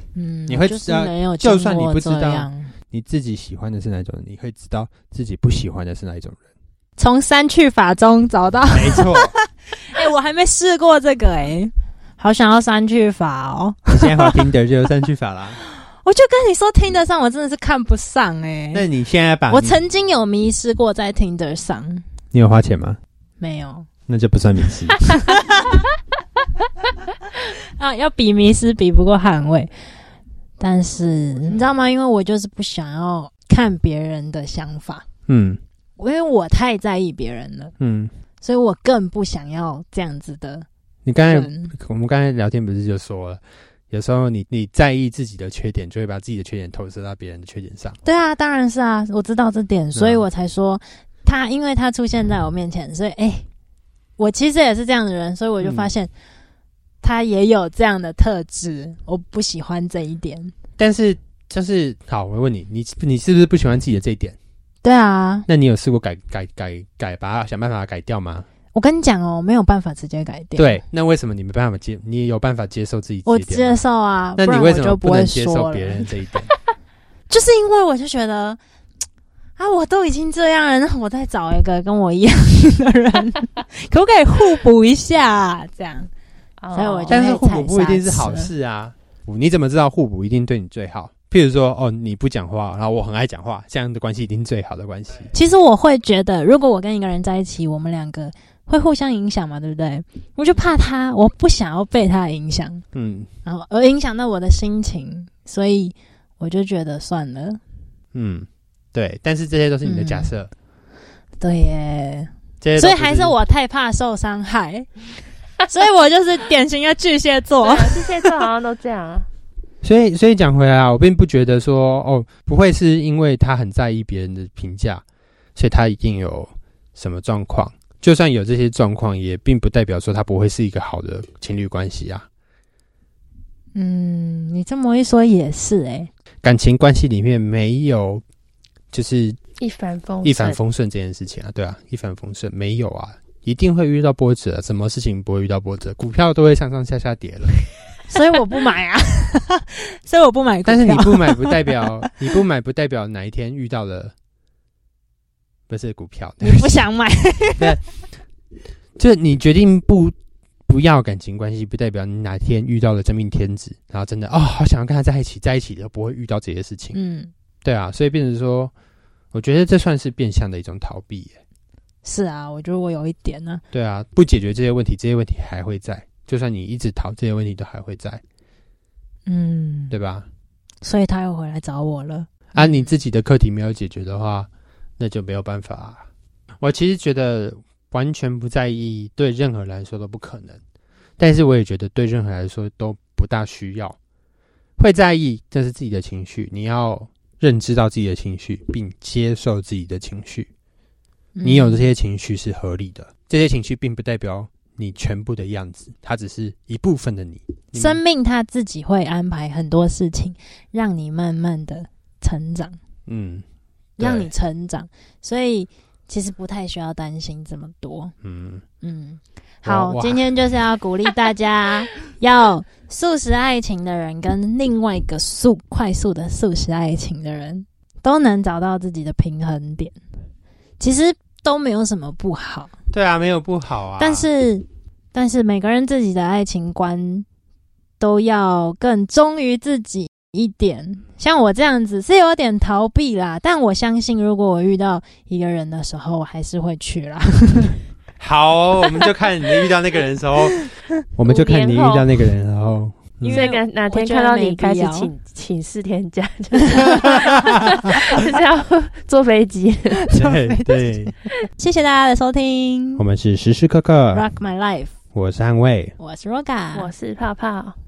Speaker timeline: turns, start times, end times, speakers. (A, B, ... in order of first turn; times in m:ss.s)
0:00.1-0:02.7 A
0:00.5-0:06.4 B
0:07.0-0:14.4 A
0:08.7-0:09.3 B
0:14.0-0:15.6 B
0:15.6-0:18.8 A
0:18.7-0:19.8 B
0:19.5-0:22.0 A
0:22.3-0:23.0 B
0:23.4-0:23.9 A
0:24.1-0:25.2 B
0:25.3-0:25.8 A
0:27.4-0:29.7 A
0:30.6-0:35.0 A
0:35.3-0:35.6 B
0:36.0-0:37.7 A
0:37.8-0:38.1 B
0:38.4-0:40.6 A
0:41.0-0:48.0 B
0:41.2-0:41.7 A
0:48.0-0:53.4 A
0:49.9-0:50.2 B
0:54.2-0:56.1 A
0:55.6-0:55.9 B
0:57.0-1:00.5 A
1:00.8-1:04.4 B
1:04.8-1:05.4 A
1:05.5-1:08.5 B
1:08.7-1:10.8 A
1:10.6-1:13.8 B
1:13.2-1:16.1 A
1:14.4-1:16.5 B
1:17.3-1:18.6 A
1:19.6-1:26.1 A
1:26.6-1:27.2 C
1:26.7-1:28.5 A
1:27.1-1:35.3 B
1:35.3-1:42.8 A
1:42.9-1:43.3 B
1:43.4-1:47.6 A
1:48.1-1:50.5 B
1:49.8-1:50.3 A
1:51.4-1:55.0 A
1:52.6-1:53.3 B
1:55.6-1:58.4 A
1:57.6-1:59.3 C
1:59.8-2:05.0 B
2:05.5-2:12.3 B
2:13.7-2:16.1 A
2:16.4-2:18.2 B
2:18.9-2:19.4 B
2:19.6-2:20.6 C
2:20.2-2:27.5 B
2:28.1-2:32.0 A
2:30.6-2:34.1 B
2:35.7-2:36.8 B
2:36.4-2:37.8 A
2:39.0-2:40.1 B
2:40.7-2:47.0 B
2:46.9-2:47.3 A
2:47.6-2:48.7 B
2:49.3-2:51.4 B
2:52.0-2:53.6 A
2:53.7-2:58.2 B
2:59.2-2:59.9 A
2:59.9-3:00.3 B
3:00.8-3:02.9 A
3:02.5-3:06.1 B
3:06.6-3:10.6 B
3:11.2-3:14.0 B
3:14.8-3:20.5 B
3:21.3-3:21.9 A
3:21.4-3:28.0 B
3:27.7-3:32.8 A
3:33.1-3:33.4 B
3:34.0-3:38.1 A
3:34.0-3:34.3 B
3:38.2-3:38.6 B
3:38.8-3:50.0 A
3:39.6-3:40.2 B
3:50.8-3:52.7 A
3:52.9-3:54.2 B
3:54.0-3:57.2 A
3:58.0-4:07.8 A
4:08.2-4:13.5 B
4:11.2-4:12.0 C
4:13.2-4:15.1 A
4:13.3-4:20.0 C
4:16.6-4:17.2 A
4:16.8-4:18.0 B
4:17.9-4:18.2 A
4:20.0-4:23.0 A
4:20.1-4:21.1 B
4:23.0-4:24.3 B
4:24.1-4:24.9 A
4:25.1-4:25.9 B
4:26.0-4:26.9 A
4:26.7-4:27.7 C